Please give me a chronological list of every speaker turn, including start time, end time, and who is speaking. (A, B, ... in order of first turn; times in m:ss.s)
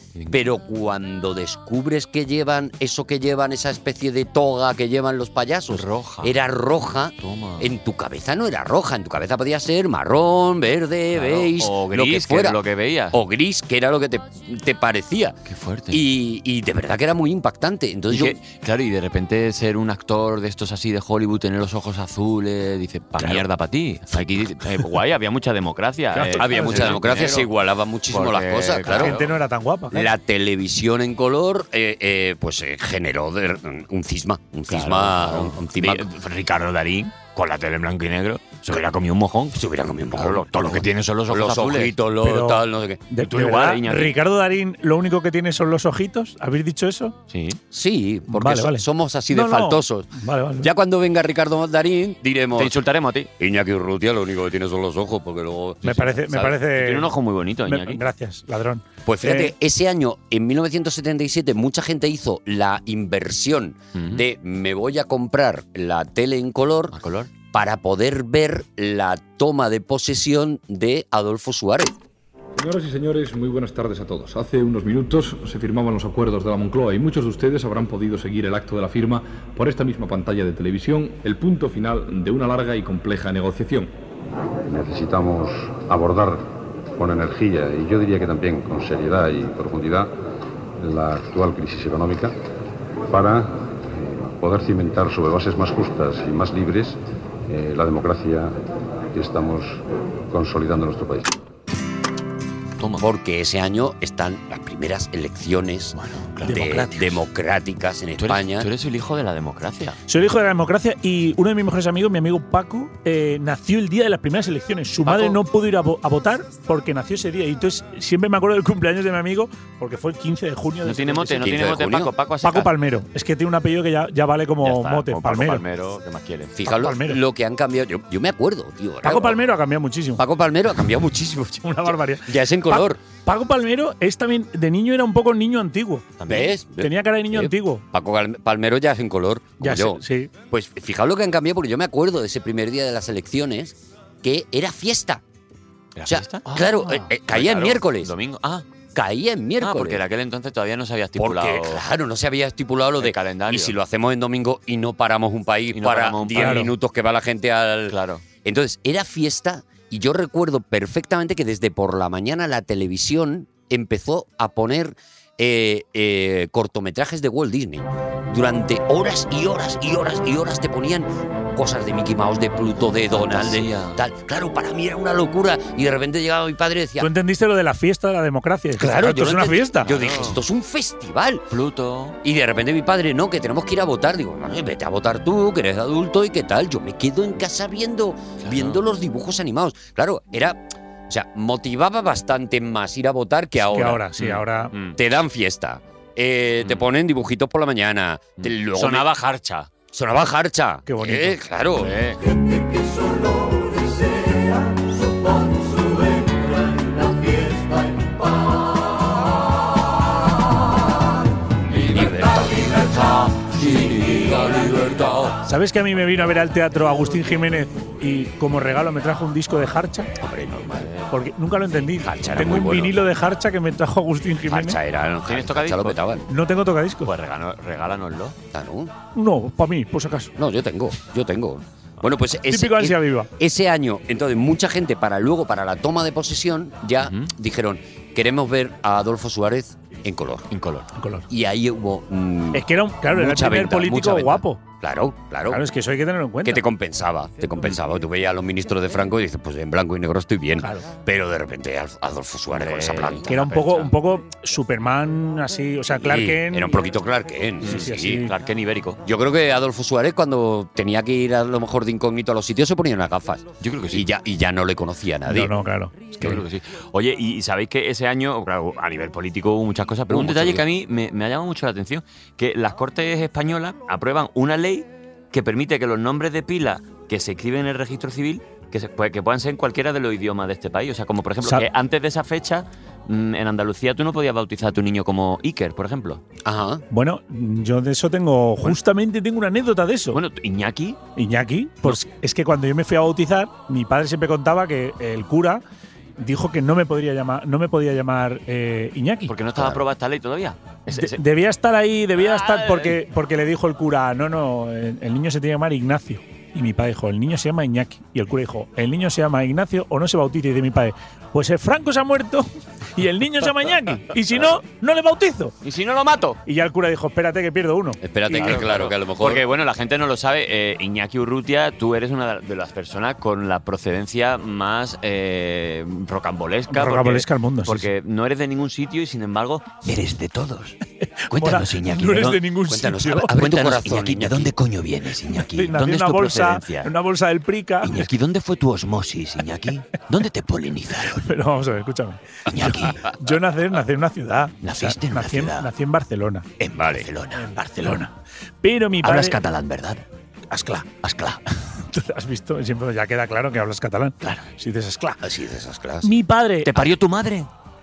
0:00.2-0:00.4 A
0:00.3-0:12.6 B
0:05.7-0:06.3 A
0:07.2-0:07.7 A
0:11.1-0:13.2 A
0:13.1-0:15.4 B
0:15.5-0:16.0 A
0:15.9-0:18.4 B
0:18.1-0:27.5 A
0:23.2-0:23.4 B
0:26.2-0:27.3 C
0:26.4-0:29.2 B
0:28.1-0:29.3 A
0:28.8-0:30.1 C
0:29.9-0:36.1 B
0:34.7-0:39.6 A
0:39.5-0:43.0 B
0:40.2-0:41.9 A
0:42.2-0:47.2 C
0:43.2-0:44.2 A
0:47.3-0:47.6 A
0:47.7-0:52.8 B
0:48.3-0:50.7 C
0:52.6-0:53.3 A
0:53.4-0:56.6 B
0:55.8-0:57.1 C
0:56.7-0:58.0 A
0:57.7-0:59.5 C
0:59.1-1:07.0 B
1:04.0-1:04.2 A
1:06.9-1:07.3 A
1:07.5-1:12.0 B
1:12.6-1:23.9 D
1:24.7-1:30.1 E
1:30.8-1:32.4 E
1:33.1-1:38.6 E
1:39.1-1:41.4 E
1:42.8-1:43.0 A
1:43.0-1:48.7 B
1:46.0-1:47.2 A
1:48.2-1:50.0 A
1:50.1-2:01.5 C
2:00.8-2:02.7 A
2:01.4-2:02.1 B
2:02.4-2:05.6 C
2:04.6-2:06.6 A
2:06.6-2:09.4 B
2:06.7-2:07.2 C
2:09.0-2:10.2 C
2:10.2-2:13.0 B
2:11.6-2:16.1 C
2:16.2-2:16.6 A
2:16.3-2:25.2 B
2:16.8-2:17.8 C
2:19.6-2:20.3 C
2:26.0-2:28.6 A
2:26.1-2:28.1 B
2:29.0-2:30.0 B
2:29.6-2:31.8 A
2:31.2-2:57.1 B
2:33.0-2:33.8 A
2:35.7-2:36.7 A
2:36.4-2:36.7 C
2:37.9-2:38.2 A
2:53.1-2:54.0 A
2:57.0-2:59.9 C
2:58.8-3:01.4 B
2:59.9-3:00.4 A
3:01.5-3:02.2 A
3:02.2-3:14.0 B
3:08.4-3:08.8 A
3:13.6-3:14.7 C
3:14.2-3:15.0 A
3:15.0-3:19.1 B
3:18.4-3:19.7 A
3:19.9-3:22.0 B
3:20.9-3:21.4 C
3:21.8-3:22.2 A
3:31.7-3:35.3 B
3:35.4-3:40.1 C
3:40.2-3:40.9 B
3:41.1-3:44.8 C
3:42.0-3:43.0 B
3:44.5-3:46.3 B
3:45.3-3:46.0 A
3:46.3-3:47.1 C
3:47.0-3:48.4 A
3:48.5-3:48.9 B
3:49.2-3:50.3 C
3:50.4-4:00.5 B
3:52.5-3:53.3 C
3:57.0-3:57.3 A
4:00.5-4:00.9 A
4:01.0-4:01.3 C
4:01.3-4:05.6 B
4:02.5-4:04.6 C
4:05.5-4:06.6 C
4:06.4-4:13.5 B
4:10.6-4:10.9 C
4:12.5-4:13.9 A
4:13.3-4:16.9 C
4:16.0-4:18.3 B
4:17.6-4:19.0 A
4:17.6-4:18.3 C
4:19.0-4:25.5 B
4:23.6-4:24.1 A
4:25.3-4:26.0 C
4:26.2-4:46.2 A
4:26.2-4:26.4 B
4:30.1-4:30.6 B
4:46.4-4:46.8 B
4:46.9-4:50.2 C
4:50.1-4:51.0 A
4:51.2-4:55.6 C
4:56.2-4:59.3 C
4:59.3-5:01.2 A
5:00.9-5:15.5 C
5:02.2-5:03.0 A
5:15.6-5:16.4 A
5:16.5-5:18.6 C
5:18.0-5:19.4 B
5:18.3-5:30.8 A
5:26.7-5:27.8 C
5:31.0-5:33.4 C
5:31.3-5:32.4 A
5:32.7-5:34.5 B
5:33.3-5:36.9 A
5:35.4-5:38.1 C
5:37.8-5:41.3 A
5:41.2-5:46.5 C
5:42.5-5:43.1 A
5:44.6-5:45.7 A
5:46.6-5:48.0 A
5:46.7-5:47.1 B
5:47.4-5:48.1 C
5:48.6-5:49.4 C
5:49.0-5:50.0 A
5:50.5-5:50.9 C
5:51.0-5:51.4 A
5:51.8-5:55.2 C
5:55.2-5:56.1 B
5:56.0-5:56.7 C
5:56.6-5:57.5 A